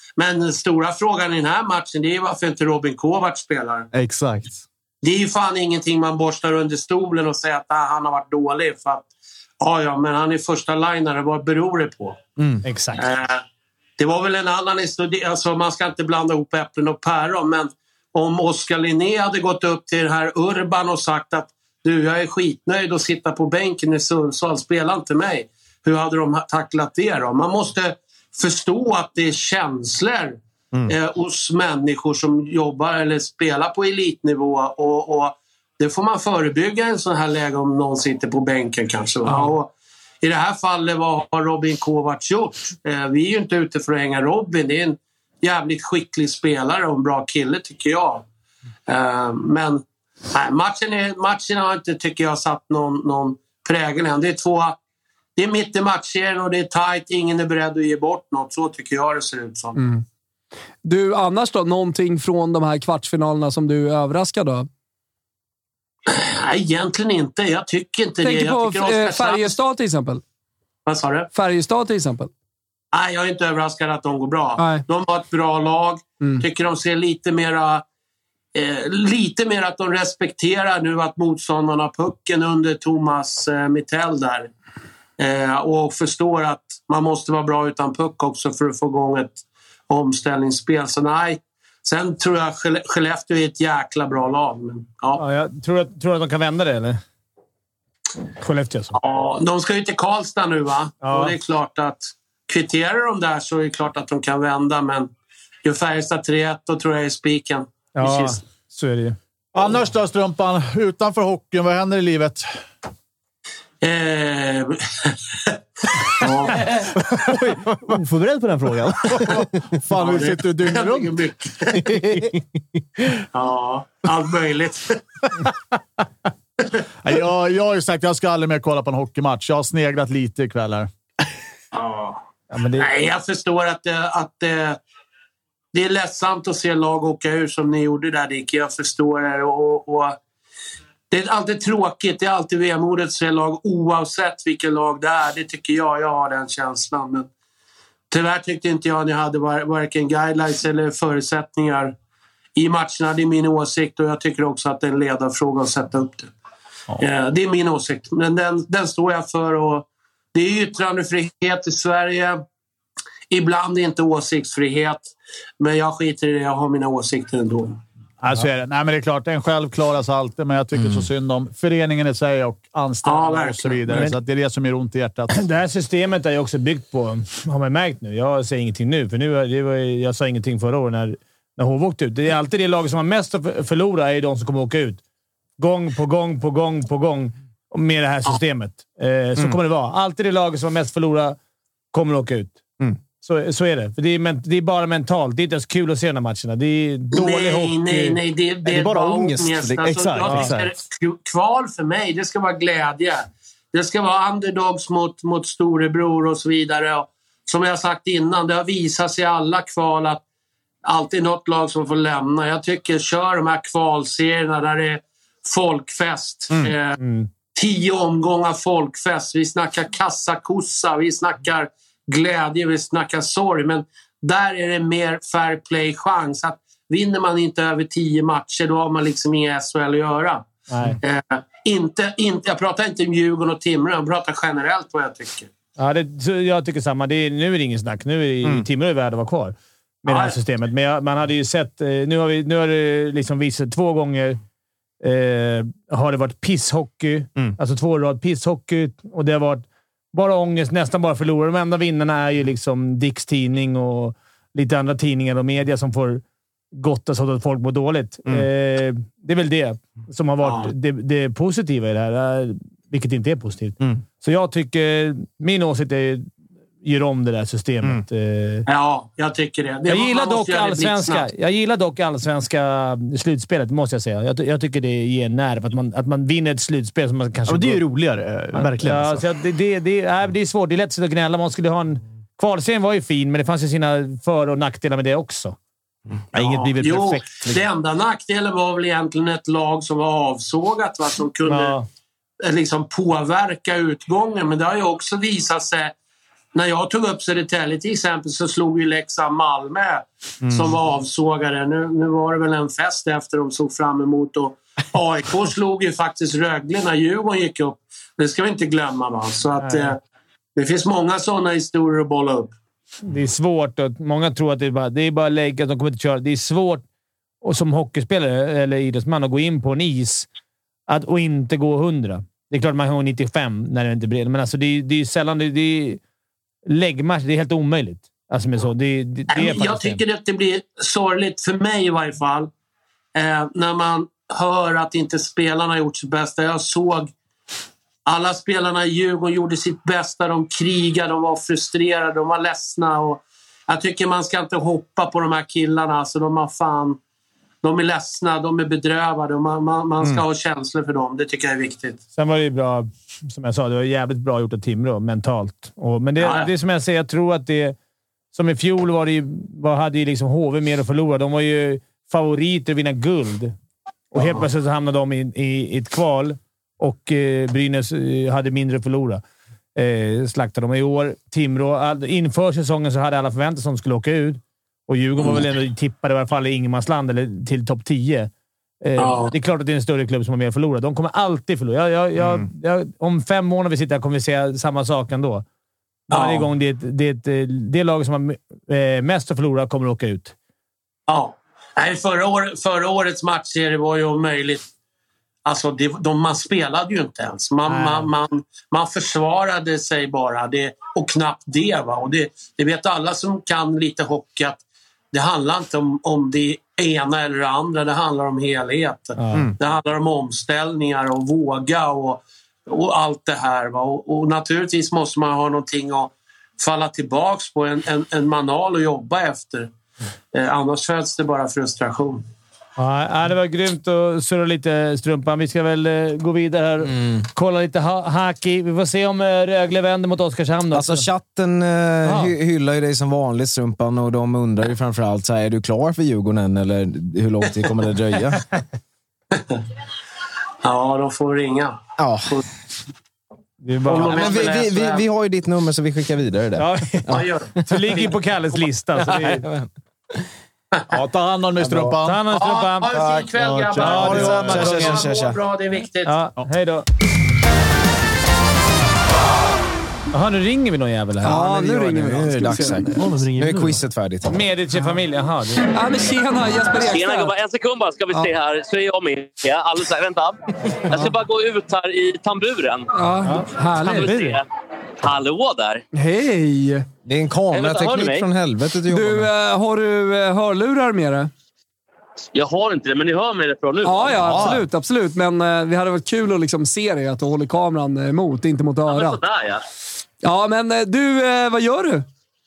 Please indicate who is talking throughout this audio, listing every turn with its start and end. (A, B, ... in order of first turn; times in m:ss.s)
0:00.2-0:03.9 A
0:03.9-0:04.6 B
0:05.0-0:12.2 A
0:12.6-0:13.1 C
0:12.9-0:13.4 A
0:14.0-0:39.7 A
0:40.2-0:48.2 A
0:48.9-0:54.8 A
0:55.4-0:59.8 A
0:59.8-1:00.0 D
1:00.8-1:04.7 D
1:06.1-1:09.6 A
1:08.2-1:10.2 D
1:10.8-1:11.3 A
1:11.3-1:12.3 D
1:12.9-1:17.8 A
1:14.6-1:14.8 D
1:18.5-1:24.5 A
1:25.2-1:35.2 A
1:35.2-1:37.0 C
1:38.4-1:39.0 C
1:38.9-1:45.1 A
1:41.0-1:41.3 C
1:45.6-1:48.4 A
1:48.0-1:49.2 C
1:49.5-1:52.4 E
1:53.8-1:55.6 A
1:56.2-1:56.7 A
1:57.2-1:59.5 B
1:59.3-2:01.1 E
1:59.9-2:01.9 A
2:01.8-2:02.4 B
2:03.3-2:05.0 A
2:07.0-2:10.9 E
2:11.7-2:12.2 A
2:12.5-2:12.9 C
2:12.8-2:14.8 A
2:15.7-2:20.2 A
2:21.1-2:27.3 A
2:28.1-2:31.9 A
2:32.6-2:36.3 A
2:37.0-2:42.4 A
2:43.3-2:47.8 A
2:48.2-2:55.4 E
2:53.0-2:54.0 A
2:53.9-2:54.1 C
2:55.3-3:05.0 C
3:05.6-3:11.4 C
3:11.9-3:12.6 C
3:13.2-3:18.2 C
3:17.1-3:30.2 A
3:18.6-3:20.7 B
3:20.2-3:20.5 C
3:30.8-3:37.0 A
3:37.0-3:37.3 C
3:37.5-3:50.5 A
3:50.7-3:51.0 C
3:51.0-3:55.5 A
3:55.8-4:04.4 C
4:00.0-4:00.4 A
4:05.0-4:16.2 C
4:16.7-4:26.3 C
4:20.4-4:20.7 A
4:26.8-4:28.7 C
4:28.7-4:31.3 A
4:29.9-4:37.8 C
4:37.5-4:39.2 B
4:38.5-4:45.6 C
4:46.3-4:47.4 B
4:46.3-4:51.8 A
4:46.4-4:47.2 C
4:51.4-4:51.8 C
4:52.4-4:55.9 A
4:56.5-5:10.0 A
5:00.4-5:00.7 B
5:09.6-5:09.9 C
5:10.6-5:12.5 A
5:13.0-5:16.8 C
5:17.4-5:20.3 C
5:20.9-5:26.0 C
5:26.6-5:30.0 C
5:29.3-5:32.5 A
5:33.1-5:37.1 A
5:38.0-5:47.0 A
5:47.6-5:52.0 A
5:52.2-5:57.8 C
5:56.2-5:56.5 A
5:58.3-6:03.5 C
6:04.1-6:09.2 C
6:04.2-6:04.4 A
6:09.8-6:18.3 C
6:18.8-6:25.4 C
6:19.0-6:19.3 A
6:26.1-6:26.5 A
6:26.1-6:30.3 C
6:31.1-6:34.7 A
6:35.4-6:59.7 A
6:37.7-6:38.1 C
6:49.2-6:49.5 C
7:00.3-7:02.2 A
7:02.8-7:11.0 C
7:10.7-7:18.4 F
7:12.0-7:12.3 C
7:19.3-7:19.6 A
7:20.6-7:21.8 A
7:22.0-7:22.4 F
7:23.6-7:24.6 C
7:23.8-7:25.0 A
7:23.9-7:27.3 F
7:26.6-7:29.5 C
7:27.1-7:28.0 A
7:29.1-7:29.6 F
7:30.9-7:32.3 E
7:32.0-7:33.0 C
7:32.3-7:36.2 A
7:32.9-7:33.2 F
7:33.4-7:34.9 E
7:33.8-7:35.0 C
7:33.8-7:34.9 B
7:33.9-7:35.4 F
7:36.0-7:36.8 C
7:40.1-7:41.3 C
7:41.2-7:44.3 F
7:41.2-7:43.0 D
7:42.9-7:43.8 B
7:44.3-7:45.7 C
7:45.7-7:47.3 D
7:46.8-7:53.0 G
7:52.9-7:54.1 D
7:53.2-7:54.4 C
7:53.8-7:54.4 G
7:55.0-7:55.8 G
7:55.9-7:56.9 D
7:57.0-7:59.3 F
7:57.5-7:58.3 G
7:58.9-8:01.3 D
8:02.3-8:04.5 G
8:03.8-8:09.2 D
8:04.2-8:04.6 F
8:08.9-8:09.6 G
8:10.2-8:12.0 D